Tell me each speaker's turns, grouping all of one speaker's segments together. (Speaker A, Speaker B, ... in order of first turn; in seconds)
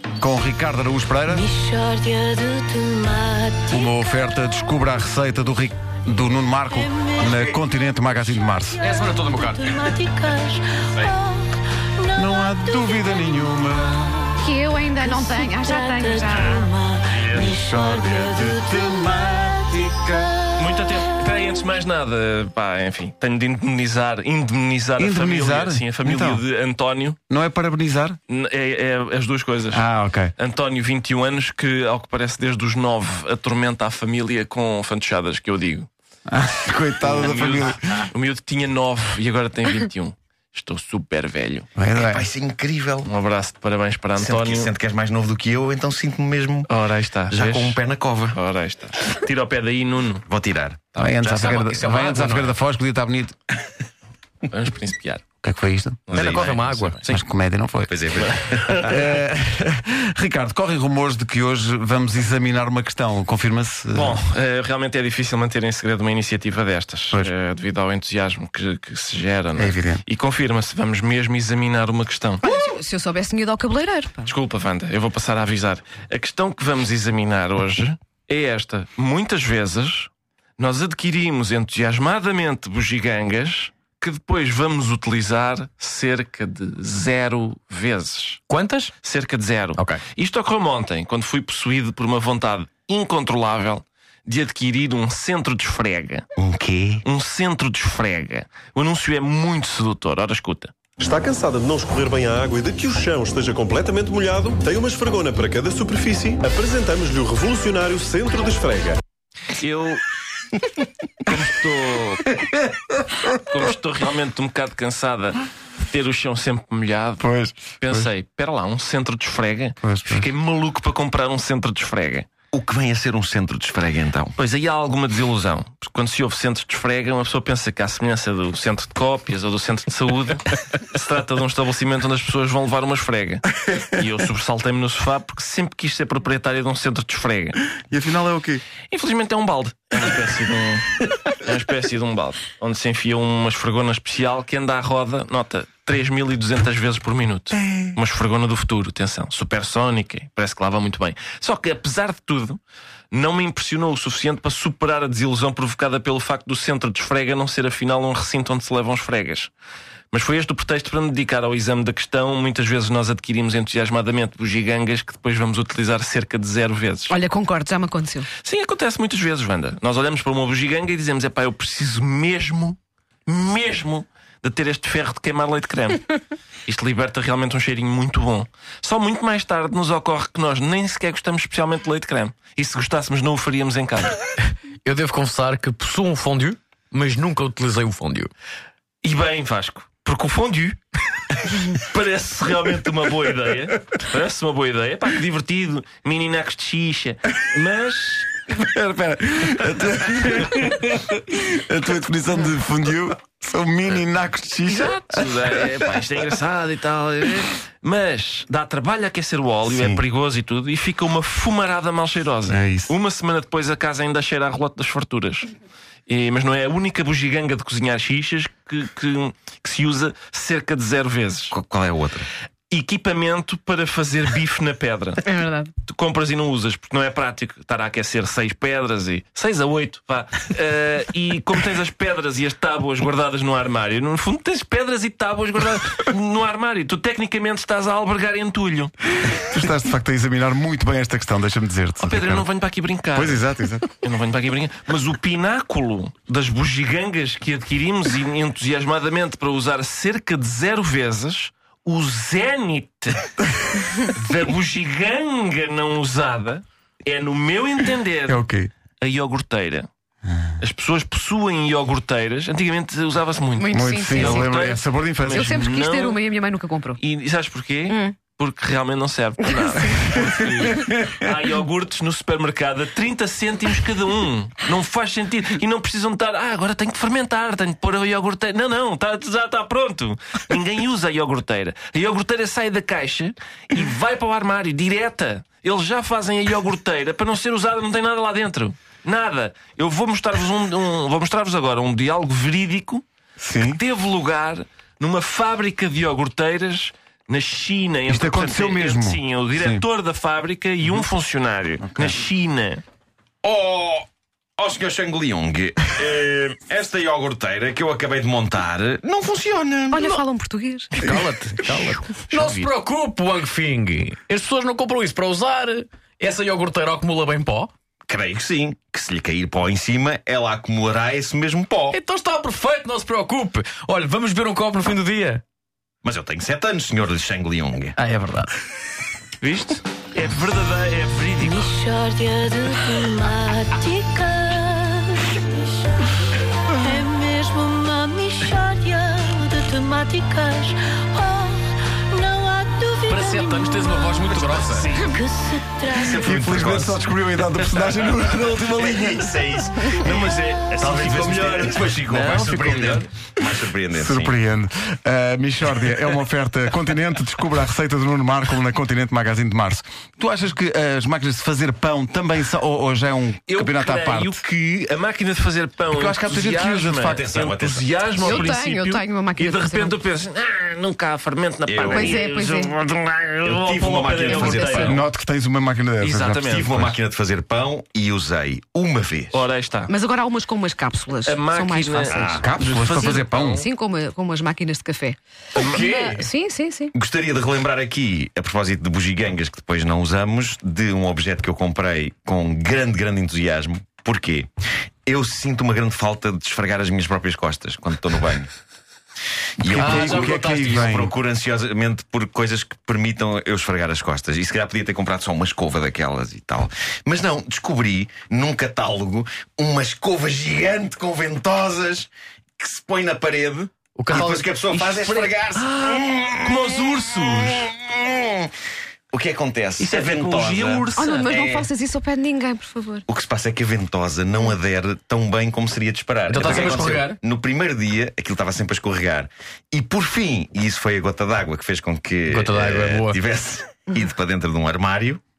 Speaker A: 0.2-1.5, 3.7-8.9, 12.1-14.4, 17.3-20.4, 25.0-26.4, 27.3-28.2, 29.7-30.3, 36.3-38.1, 41.8-42.3, 51.0-53.4, 55.4-56.0, 57.1-57.9, 58.7-64.2, 69.6-70.0, 117.2-118.1, 119.8-120.3, 137.9-138.6, 147.6-147.9, 198.5-205.8, 239.2-242.4, 243.1-243.9, 258.3-258.7, 263.7-265.7, 270.8-271.2, 293.4-293.8, 298.1-299.8, 346.0-349.4, 354.0-364.4, 365.9-367.3, 374.8-376.9, 382.4-383.6, 399.6-401.1
Speaker B: 1.3-3.9, 6.9-7.7, 8.7-13.3, 15.0-19.7, 331.4-335.9, 336.7-346.2
Speaker C: 8.8-9.6, 51.4-52.5, 56.3-57.1, 88.5-88.9, 184.8-188.3, 311.0-317.7, 321.9-325.4, 328.0-328.5, 343.1-344.9, 399.9-400.9, 414.0-414.5, 426.3-427.2, 432.3-433.2
Speaker D: 14.4-16.7, 72.4-74.3, 167.1-168.3, 225.3-225.7, 263.6-267.0, 267.9-268.1, 269.5-270.1, 309.9-311.0, 368.2-369.9, 371.9-372.8, 374.2-374.9, 379.9-386.9, 421.0-423.0
Speaker E: 20.6-27.2, 28.3-29.9, 30.4-35.9, 37.0-41.7, 43.0-44.7, 46.7-47.8, 48.3-50.2, 54.5-55.2, 56.1-57.1, 58.4-58.9, 63.9-72.5, 74.2-88.4, 89.0-96.2, 97.0-100.7, 109.5-110.0, 111.3-112.5, 113.5-117.3, 117.8-122.3, 124.4-137.6, 138.9-152.6, 153.1-159.5, 160.1-167.1, 168.4-184.2, 189.0-190.8, 191.3-198.3, 204.7-215.5, 216.1-221.5, 222.7-225.3, 225.9-238.9, 242.0-243.5, 244.0-253.3, 254.0-258.5, 259.0-259.9, 260.6-266.2, 267.0-293.0, 293.6-302.8, 329.4-331.8, 344.5-345.1, 347.6-348.5, 349.9-353.1, 363.5-375.0, 376.0-376.9, 379.3-379.9, 381.2-383.6, 385.6-385.9, 414.7-417.7, 419.8-421.4
Speaker F: 41.9-43.1, 44.2-46.7, 47.3-48.4, 50.3-51.6, 56.1-56.6, 57.9-59.1, 96.4-97.0, 122.5-124.4, 209.8-210.0, 212.6-212.9, 221.5-222.3, 303.4-304.1, 304.6-310.2, 318.1-322.0, 326.0-328.0, 345.9-347.0, 348.1-354.4, 367.1-368.3, 371.7-372.2, 373.4-375.0, 376.4-379.4, 382.1-382.5, 386.9-394.5, 395.1-398.5, 399.6-416.6, 417.4-418.5, 419.1-421.7, 423.1-435.2
Speaker G: 101.0-109.0